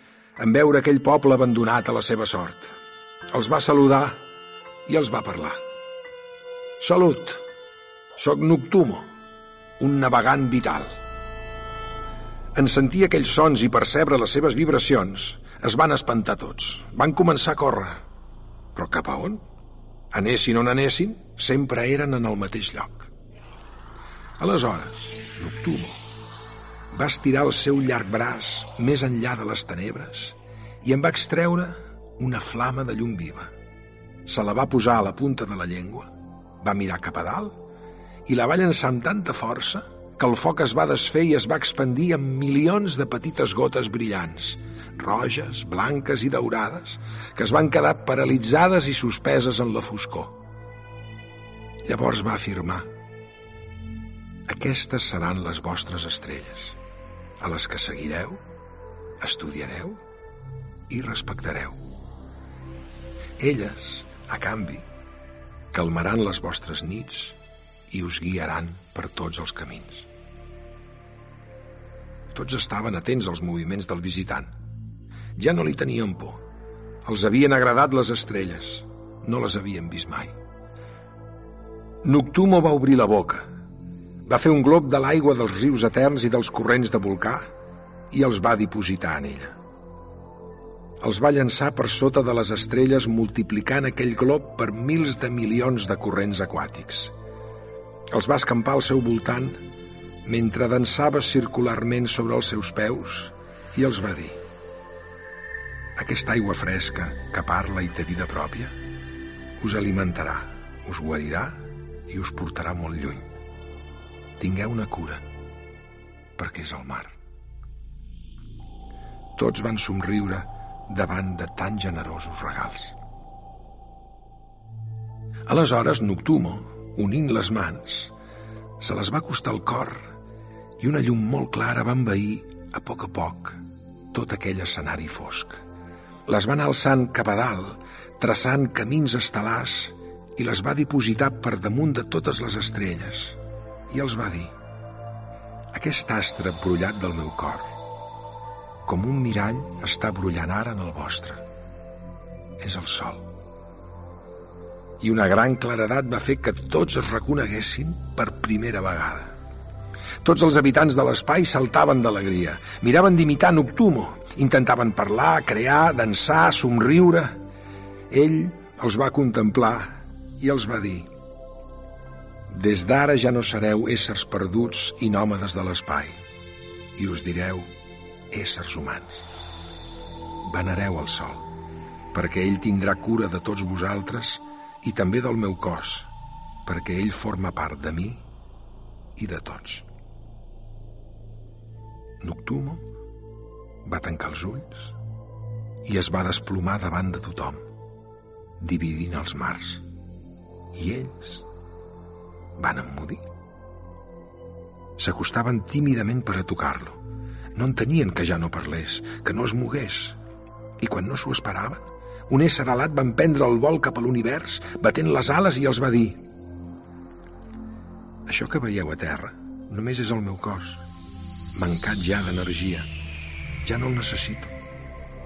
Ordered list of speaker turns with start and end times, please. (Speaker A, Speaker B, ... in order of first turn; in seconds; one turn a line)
Speaker A: 0.4-2.8
Speaker A: 3.3-4.2
Speaker A: 4.9-5.6
Speaker A: 6.8-7.4
Speaker A: 8.2-9.1
Speaker A: 9.8-11.0
Speaker A: 12.5-18.0
Speaker A: 18.8-19.4
Speaker A: 20.1-23.1
Speaker A: 24.4-26.0
Speaker A: 26.9-33.5
Speaker A: 34.2-37.6
Speaker A: 38.2-50.4
Speaker A: 51.9-52.9
Speaker A: 54.5-56.8
Speaker A: 57.4-58.4
Speaker A: 59.2-60.0
Speaker A: 60.9-61.8
Speaker A: 63.4-64.8
Speaker A: 65.7-67.4
Speaker A: 67.9-70.1
Speaker A: 72.3-74.5
Speaker A: 75.4-76.4
Speaker A: 77.0-80.3
Speaker A: 82.0-83.5
Speaker A: 84.2-87.5
Speaker A: 88.1-89.5
Speaker A: 91.0-97.1
Speaker A: 98.1-99.6
Speaker A: 100.2-104.4
Speaker A: 106.0-108.8
Speaker A: 109.6-113.3
Speaker A: 114.4-115.2
Speaker A: 116.4-117.1
Speaker A: 119.4-123.0
Speaker A: 125.5-128.1
Speaker A: 128.8-130.1
Speaker A: 130.8-133.6
Speaker A: 134.1-135.6
Speaker A: 136.3-143.4
Speaker A: 143.9-144.5
Speaker A: 145.7-147.7
Speaker A: 148.8-151.4
Speaker A: 152.6-153.3
Speaker A: 155.0-159.3
Speaker A: 160.2-167.4
Speaker A: 168.1-171.1
Speaker A: 172.5-176.2
Speaker A: 177.0-177.7
Speaker A: 178.3-179.2
Speaker A: 180.4-181.5
Speaker A: 182.1-186.1
Speaker A: 186.7-188.2
Speaker A: 189.2-189.9
Speaker A: 192.2-192.8
Speaker A: 193.8-194.9
Speaker A: 195.8-197.6
Speaker A: 198.6-199.8
Speaker A: 200.7-201.4
Speaker A: 202.6-203.2
Speaker A: 205.0-207.0
Speaker A: 207.5-210.2
Speaker A: 210.8-216.2
Speaker A: 218.2-220.8
Speaker A: 221.5-222.9
Speaker A: 223.6-224.5